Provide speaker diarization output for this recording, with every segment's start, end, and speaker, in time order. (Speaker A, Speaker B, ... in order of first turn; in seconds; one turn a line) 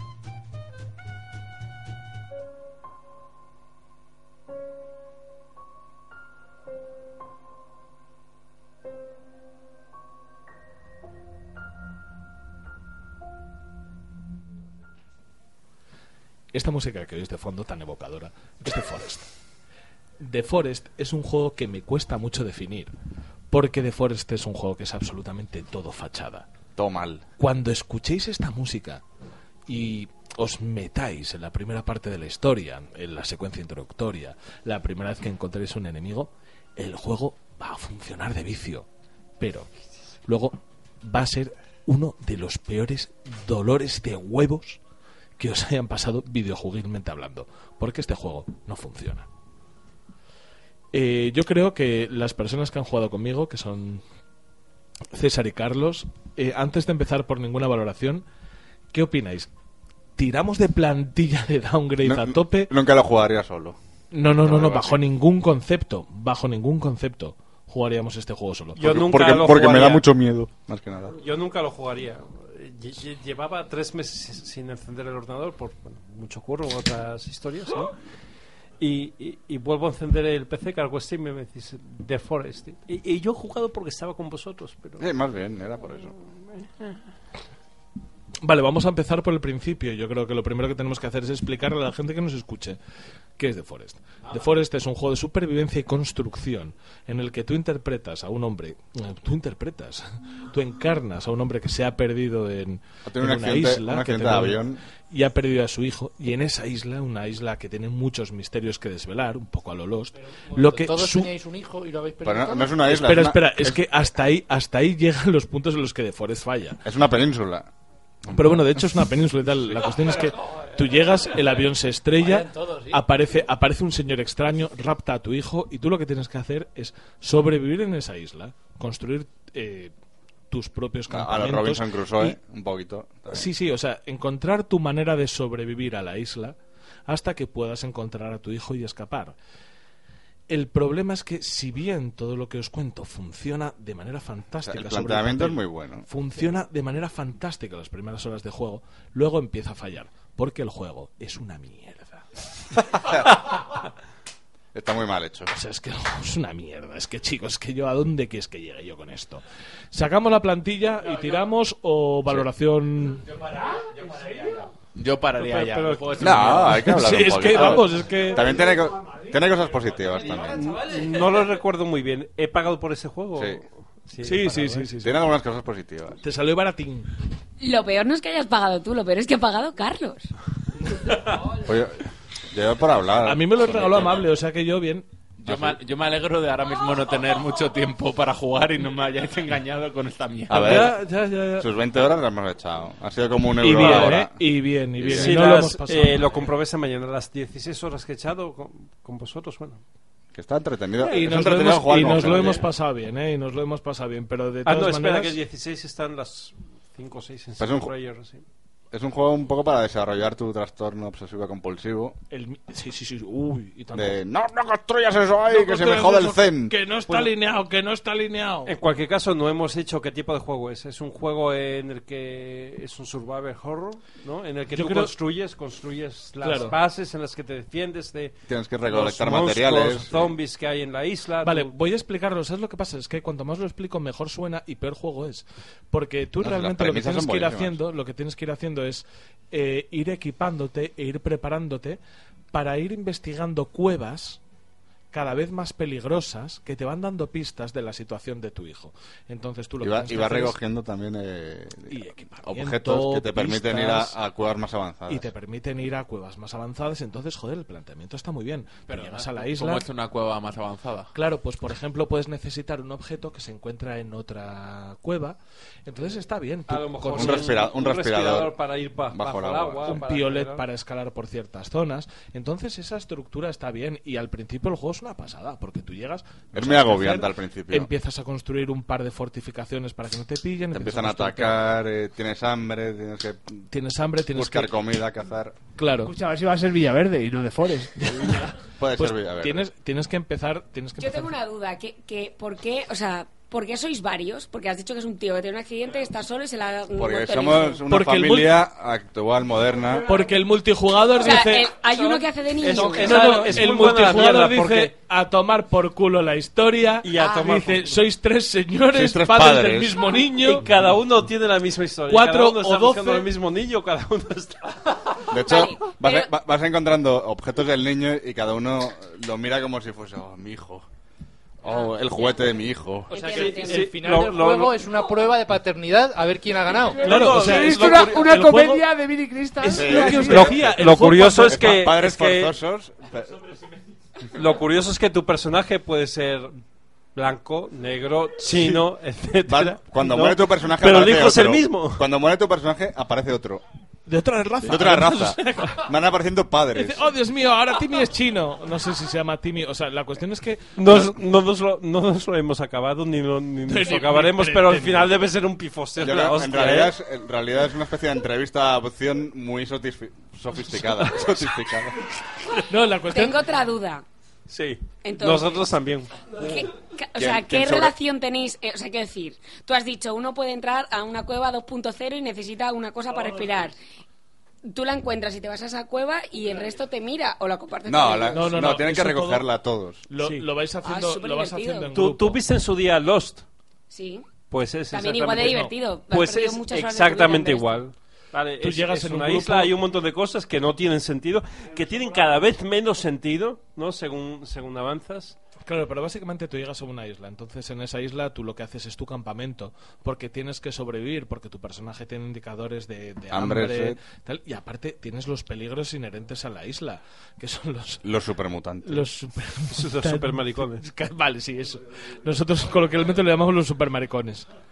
Speaker A: 16.5-19.3
Speaker A: 20.2-22.9
Speaker A: 23.5-26.5
Speaker B: 26.8-27.3
Speaker A: 27.4-29.0
Speaker A: 29.7-38.9
Speaker A: 39.4-39.7
Speaker A: 40.3-44.8
Speaker A: 45.4-49.3
Speaker A: 50.9-54.0
Speaker A: 55.1-58.2
Speaker A: 58.9-59.5
Speaker A: 60.2-62.7
Speaker B: 62.0-63.8
Speaker A: 64.1-68.8
Speaker B: 64.3-65.0
Speaker C: 68.8-70.0
Speaker B: 68.8-71.2
Speaker C: 71.2-77.9
Speaker C: 78.8-85.0
Speaker B: 85.0-86.1
Speaker C: 86.3-87.0
Speaker A: 88.4-92.8
Speaker A: 93.4-111.3
Speaker B: 103.0-104.8
Speaker D: 110.5-112.8
Speaker B: 112.2-113.8
Speaker A: 112.9-116.8
Speaker B: 116.8-117.7
Speaker B: 118.2-119.0
Speaker A: 118.3-129.9
Speaker D: 122.2-123.0
Speaker A: 130.5-132.4
Speaker B: 131.1-133.5
Speaker A: 133.3-136.6
Speaker A: 137.1-139.3
Speaker A: 140.5-152.3
Speaker B: 144.6-146.1
Speaker B: 153.0-153.4
Speaker B: 154.7-155.5
Speaker A: 155.5-159.4
Speaker A: 159.9-163.3
Speaker E: 164.9-166.9
Speaker C: 165.3-166.7
Speaker B: 166.2-170.7
Speaker A: 166.7-168.5
Speaker C: 170.5-174.9
Speaker B: 173.4-173.6
Speaker A: 174.2-175.2
Speaker B: 175.0-176.2
Speaker A: 176.2-177.1
Speaker F: 177.6-180.3
Speaker B: 181.5-184.2
Speaker A: 183.2-185.1
Speaker E: 185.4-190.8
Speaker B: 185.4-185.8
Speaker B: 190.5-191.0
Speaker A: 190.5-191.7
Speaker B: 191.6-194.4
Speaker A: 193.6-196.3
Speaker C: 193.8-194.1
Speaker B: 194.9-195.5
Speaker C: 195.1-199.8
Speaker B: 200.3-202.7
Speaker A: 201.0-205.4
Speaker C: 204.7-208.4
Speaker B: 207.6-207.9
Speaker B: 208.9-212.2
Speaker A: 212.3-214.2
Speaker B: 213.9-216.8
Speaker A: 215.5-218.8
Speaker C: 217.1-217.3
Speaker C: 218.7-231.7
Speaker A: 224.7-225.1
Speaker A: 226.4-226.8
Speaker B: 228.5-230.3
Speaker A: 231.4-242.0
Speaker B: 236.4-237.8
Speaker A: 242.5-244.4
Speaker A: 245.1-250.6
Speaker B: 249.8-255.3
Speaker A: 251.9-254.2
Speaker A: 255.1-259.9
Speaker E: 258.9-261.1
Speaker A: 261.1-267.4
Speaker C: 266.7-270.6
Speaker B: 267.1-268.6
Speaker B: 269.1-270.0
Speaker A: 269.9-281.7
Speaker B: 276.5-277.9
Speaker B: 280.7-283.6
Speaker A: 283.7-284.7
Speaker B: 284.3-285.6
Speaker A: 285.8-286.1
Speaker G: 286.0-288.4
Speaker A: 288.0-291.3
Speaker B: 288.8-289.7
Speaker F: 291.0-297.9
Speaker B: 296.9-300.1
Speaker A: 297.9-298.6
Speaker A: 300.0-301.8
Speaker F: 301.2-303.5
Speaker C: 302.6-304.9
Speaker A: 303.0-310.7
Speaker C: 307.0-308.0
Speaker F: 307.2-307.5
Speaker B: 308.9-310.1
Speaker C: 310.4-315.2
Speaker A: 312.1-313.3
Speaker B: 315.3-320.9
Speaker F: 315.3-316.3
Speaker B: 321.6-323.1
Speaker F: 321.7-322.5
Speaker F: 323.1-323.9
Speaker D: 323.1-327.1
Speaker C: 323.4-324.8
Speaker C: 327.0-328.3
Speaker A: 327.0-328.9
Speaker G: 327.0-330.6
Speaker A: 329.6-331.6
Speaker B: 329.7-333.4
Speaker C: 330.2-332.6
Speaker C: 334.4-336.5
Speaker C: 337.1-342.0
Speaker B: 339.5-343.6
Speaker A: 344.1-345.9
Speaker B: 344.6-347.1
Speaker A: 346.7-350.8
Speaker C: 350.8-356.9
Speaker A: 353.7-355.3
Speaker B: 356.0-362.1
Speaker A: 362.6-363.4
Speaker F: 363.1-364.0
Speaker C: 364.5-366.3
Speaker F: 365.0-365.7
Speaker F: 366.4-373.7
Speaker B: 367.2-367.9
Speaker F: 374.7-378.7
Speaker B: 377.9-380.1
Speaker A: 378.3-379.5
Speaker A: 380.1-382.4
Speaker F: 380.8-381.9
Speaker C: 381.9-383.4
Speaker F: 383.9-384.3
Speaker C: 384.5-395.4
Speaker F: 384.9-387.8
Speaker A: 388.6-389.7
Speaker A: 395.6-408.0
Speaker B: 403.3-404.0
Speaker B: 408.0-409.1
Speaker A: 408.8-414.5
Speaker C: 409.7-410.8